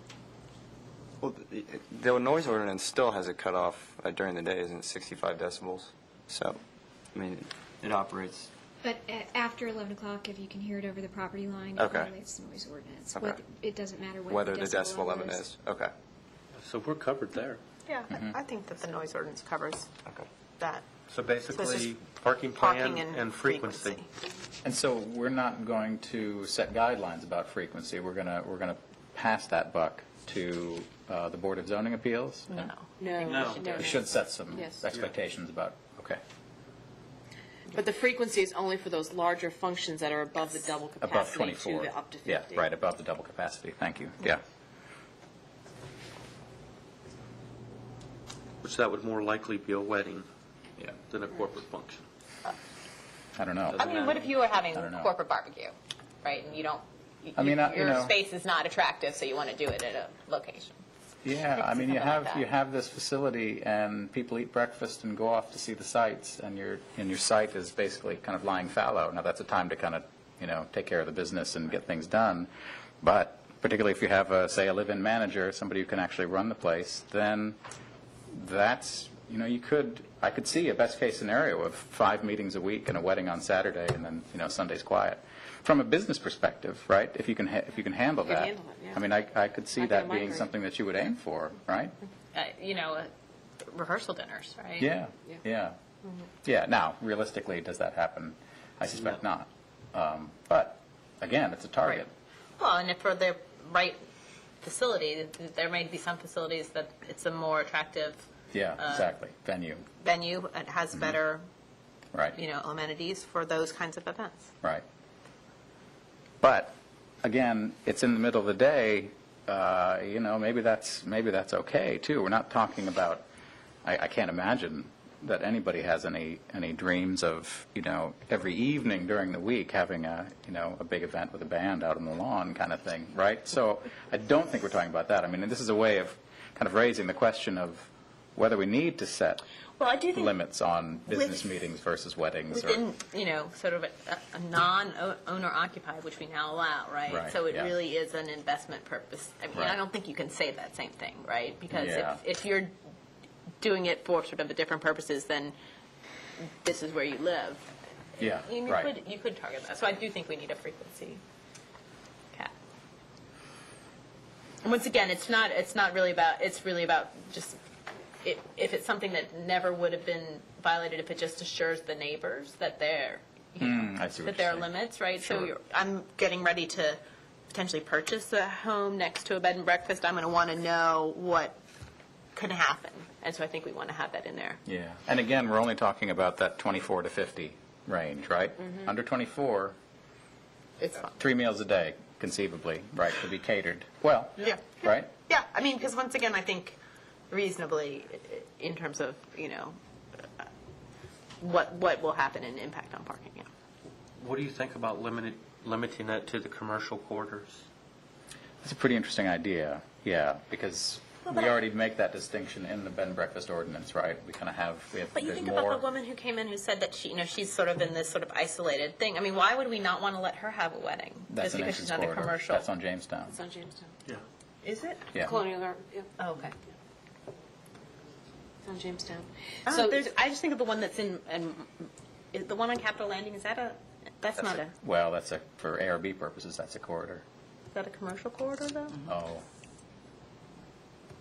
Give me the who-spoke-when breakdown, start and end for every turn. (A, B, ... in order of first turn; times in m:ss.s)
0:01.2-0:06.6 A
0:07.1-0:08.5 A
0:08.8-0:15.4 B
0:11.8-0:12.1 A
0:13.1-0:13.4 A
0:14.2-0:15.9 A
0:16.6-0:17.6 C
0:17.8-0:19.9 D
0:20.6-0:20.8 D
0:21.1-0:24.0 C
0:21.5-0:21.9 D
0:22.6-0:24.0 D
0:24.6-0:32.7 E
0:32.5-0:33.8 D
0:33.0-0:34.8 F
0:33.2-0:33.8 C
0:33.6-0:36.2 E
0:37.7-0:42.7 F
0:41.0-0:44.4 E
0:48.6-0:50.3 C
0:51.0-0:52.0 C
0:53.4-0:53.9 E
0:53.8-1:00.8 D
0:53.8-0:54.2 C
0:54.7-0:55.1 E
0:57.4-0:58.1 E
1:01.2-1:12.5 E
1:01.5-1:02.4 D
1:13.0-1:17.6 E
1:18.3-1:32.0 E
1:28.2-1:29.0 F
1:29.8-1:30.5 F
1:32.3-1:34.9 D
1:34.8-1:35.8 E
1:36.4-1:42.1 E
1:42.6-1:44.0 D
1:44.6-1:48.2 D
1:48.5-1:49.8 E
1:48.8-1:49.1 D
1:50.0-1:51.4 D
1:52.3-1:54.5 D
1:56.4-2:03.2 E
2:03.8-2:19.4 E
2:19.8-2:20.3 D
2:20.1-2:22.8 E
2:21.1-2:21.4 D
2:22.5-2:32.7 D
2:27.1-2:27.7 E
2:29.5-2:29.8 E
2:31.7-2:32.2 E
2:33.6-2:35.5 D
2:36.6-2:37.7 D
2:38.2-2:38.9 E
2:38.4-2:41.2 D
2:44.6-2:47.6 D
2:48.2-3:01.6 D
2:53.6-2:55.5 E
3:02.3-3:04.6 D
3:04.6-3:09.8 E
3:10.8-3:11.1 D
3:11.0-3:15.1 E
3:14.4-3:16.8 D
3:17.3-3:20.5 D
3:21.4-3:23.5 D
3:24.2-3:27.6 C
3:28.6-3:35.8 E
3:35.1-3:42.6 D
3:41.3-3:43.4 E
3:43.3-3:43.9 F
3:44.6-3:45.1 D
3:45.2-3:46.1 F
3:46.2-3:46.5 D
3:48.6-3:50.0 F
3:49.6-3:54.7 D
3:54.4-3:57.2 E
3:57.7-3:59.0 D
3:59.0-3:59.4 E